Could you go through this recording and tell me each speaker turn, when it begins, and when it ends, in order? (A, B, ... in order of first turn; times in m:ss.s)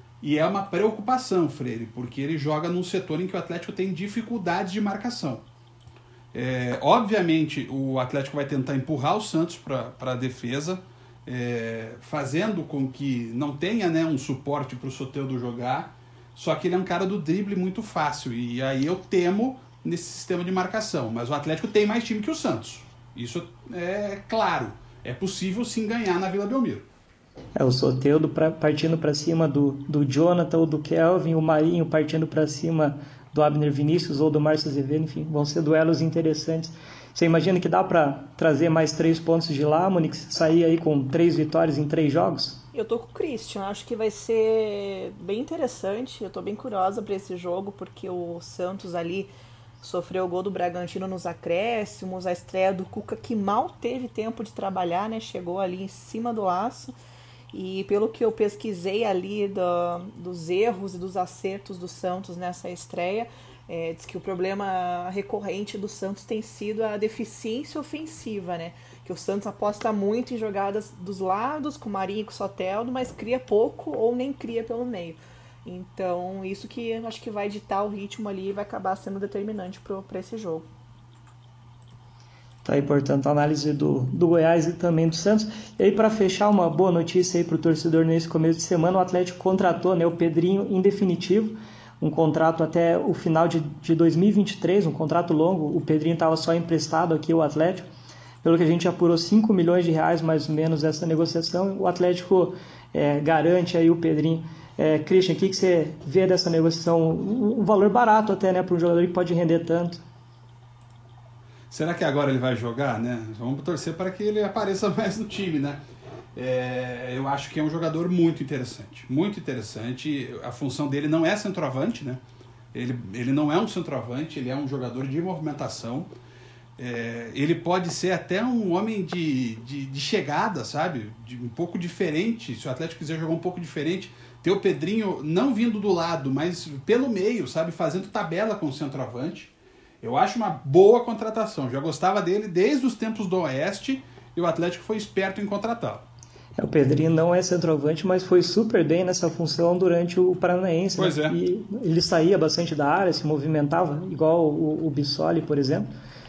0:00.2-0:05.4 A
0:06.3-0:26.8 A
0:27.6-0:42.6 B
0:42.7-0:56.9 C
0:57.5-1:20.6 C
1:22.6-1:37.9 B
1:38.4-1:50.0 B
1:51.7-1:55.8 A
1:56.3-2:02.2 A
2:02.7-2:06.1 A
2:06.8-2:26.0 A
2:26.6-2:35.9 B
2:31.0-2:31.4 A